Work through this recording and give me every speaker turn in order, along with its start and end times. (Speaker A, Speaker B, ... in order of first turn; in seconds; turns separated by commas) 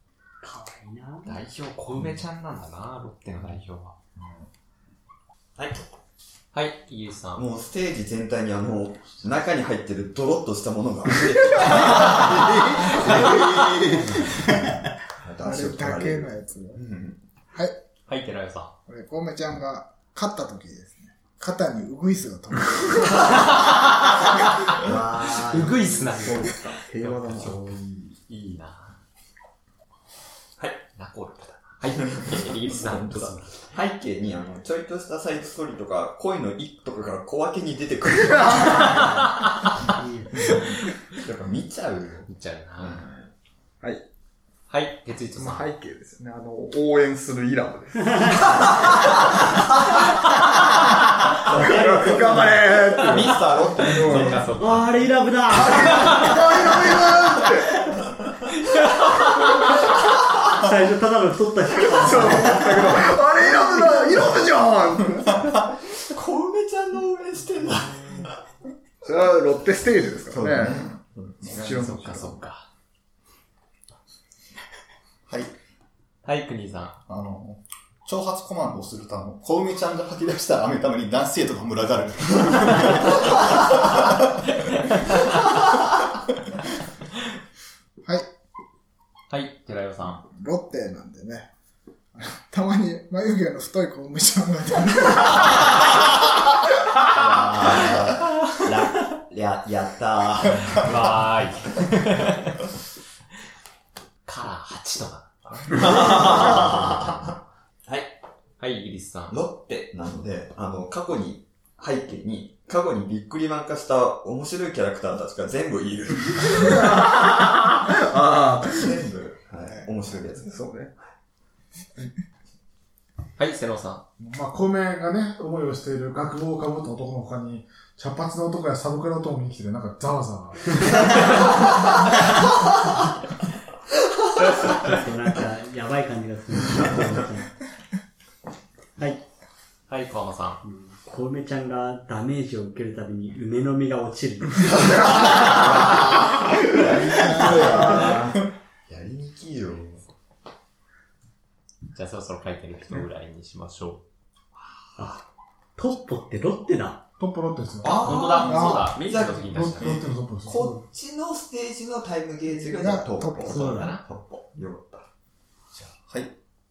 Speaker A: 0.4-1.4, Speaker B: 1.2-4.0, Speaker C: 5.6-5.9, Speaker B: 6.5-7.4, Speaker C: 7.4-14.6, Speaker B: 12.9-13.4, Speaker C: 15.2-17.2, Speaker D: 15.4-16.8, Speaker B: 18.1-18.7, Speaker D: 18.9-23.7, Speaker C: 24.8-26.3, Speaker B: 25.3-27.7, Speaker E: 25.8-27.7, Speaker C: 27.3-28.1, Speaker B: 28.3-29.0, Speaker B: 30.9-33.5, Speaker C: 32.0-39.1, Speaker E: 38.3-39.0, Speaker A: 39.9-40.6, Speaker C: 41.2-42.3, Speaker B: 42.3-43.1, Speaker C: 42.8-43.3, Speaker B: 44.7-45.7, Speaker E: 45.4-48.5, Speaker A: 48.1-48.4, Speaker C: 51.5-54.5, Speaker E: 51.5-54.4, Speaker B: 53.8-55.1, Speaker A: 54.5-56.3, Speaker E: 55.5-57.8, Speaker B: 55.7-56.4, Speaker B: 58.7-59.5, Speaker A: 60.5-63.0, Speaker E: 61.8-65.5, Speaker C: 66.0-68.3, Speaker E: 69.0-70.9, Speaker C: 70.3-71.5, Speaker E: 71.4-72.4, Speaker B: 71.5-72.7, Speaker B: 76.2-77.0, Speaker F: 77.1-83.3, Speaker B: 84.9-85.3, Speaker B: 89.3-90.2, Speaker D: 90.2-91.5, Speaker D: 92.2-95.6, Speaker C: 97.1-101.1, Speaker B: 100.7-102.6, Speaker B: 104.2-106.3, Speaker C: 105.7-107.2, Speaker C: 107.9-108.1, Speaker B: 108.6-109.4, Speaker C: 109.3-117.0, Speaker E: 116.7-118.9, Speaker C: 118.5-120.5, Speaker E: 120.5-120.9, Speaker B: 123.4-124.0, Speaker G: 124.2-130.8, Speaker A: 134.7-137.6, Speaker B: 139.9-140.6, Speaker A: 140.6-145.6, Speaker C: 145.3-150.0, Speaker A: 147.2-148.0, Speaker D: 147.3-148.1, Speaker B: 151.9-154.0, Speaker A: 155.0-155.2, Speaker A: 155.8-157.0, Speaker G: 157.2-160.7, Speaker C: 157.8-165.1, Speaker B: 157.9-160.0, Speaker D: 158.4-158.9, Speaker D: 162.6-163.9, Speaker A: 163.5-164.0, Speaker B: 163.5-164.0, Speaker F: 165.8-166.3